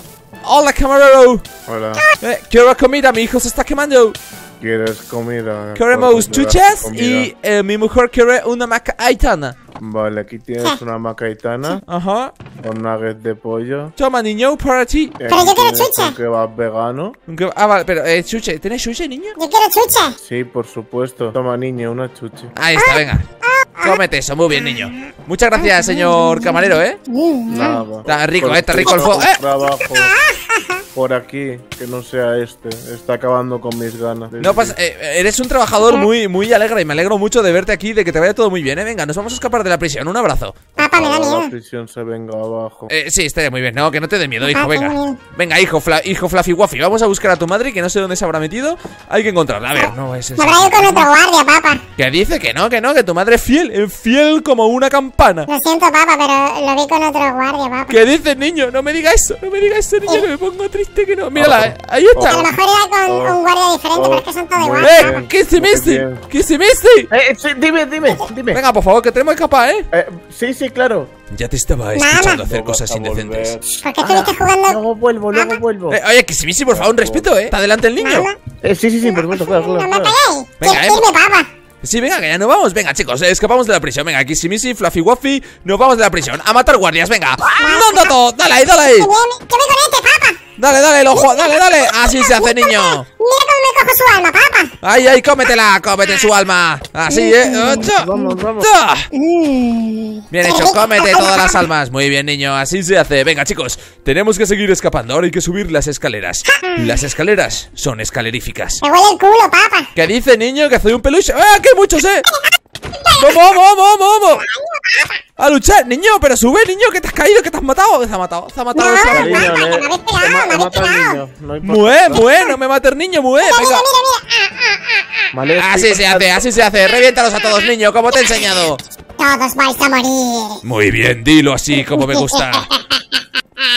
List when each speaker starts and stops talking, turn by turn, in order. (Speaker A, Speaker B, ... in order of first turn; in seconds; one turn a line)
Speaker A: 0.4-1.4
Speaker B: 1.7-2.0
Speaker A: 2.2-4.2
Speaker B: 4.6-7.3
Speaker A: 5.7-9.6
Speaker B: 9.8-11.8
Speaker A: 11.9-12.3
Speaker B: 12.6-13.9
Speaker A: 14.0-15.2
Speaker B: 15.2-17.1
Speaker C: 15.3-16.1
Speaker A: 17.3-19.4
Speaker C: 19.4-20.1
Speaker B: 20.2-22.5
Speaker A: 22.5-23.2
Speaker C: 22.8-23.0
Speaker C: 23.6-24.0
Speaker A: 23.8-27.0
Speaker C: 24.6-24.9
Speaker C: 25.6-27.8
Speaker B: 27.5-30.1
Speaker A: 28.1-29.4
Speaker C: 29.8-30.8
Speaker B: 30.9-34.8
Speaker A: 34.4-40.7
Speaker C: 40.8-41.5
Speaker B: 40.8-42.9
Speaker A: 42.9-51.1
Speaker C: 44.4-45.2
Speaker C: 50.4-51.8
Speaker A: 52.0-55.5
Speaker C: 55.5-58.0
Speaker A: 57.9-62.5
Speaker B: 61.4-62.5
Speaker C: 62.2-65.3
Speaker B: 63.0-63.4
Speaker B: 63.9-66.2
Speaker A: 64.8-67.1
Speaker B: 67.1-68.6
Speaker A: 68.5-69.9
Speaker B: 69.9-71.1
Speaker A: 71.3-74.3
Speaker C: 71.9-72.4
Speaker B: 72.4-73.8
Speaker C: 73.8-74.8
Speaker B: 74.7-76.0
Speaker C: 75.3-75.6
Speaker A: 75.9-78.3
Speaker B: 76.7-77.3
Speaker C: 78.0-78.3
Speaker B: 78.6-80.2
Speaker C: 79.0-81.5
Speaker A: 80.6-81.1
Speaker A: 81.8-89.1
Speaker C: 87.5-88.1
Speaker C: 88.9-90.4
Speaker A: 90.6-93.0
Speaker C: 91.2-94.7
Speaker A: 94.8-99.1
Speaker C: 97.1-98.3
Speaker B: 97.7-98.7
Speaker C: 99.1-101.6
Speaker A: 100.3-108.8
Speaker C: 106.6-107.0
Speaker C: 108.8-109.9
Speaker A: 109.9-112.3
Speaker A: 113.1-114.5
Speaker C: 114.7-115.1
Speaker A: 115.4-119.6
Speaker C: 118.7-121.2
Speaker B: 119.1-122.2
Speaker A: 121.6-123.9
Speaker C: 123.4-124.8
Speaker B: 125.3-126.3
Speaker A: 125.6-128.8
Speaker C: 129.2-130.6
Speaker A: 130.6-132.7
Speaker C: 131.8-133.0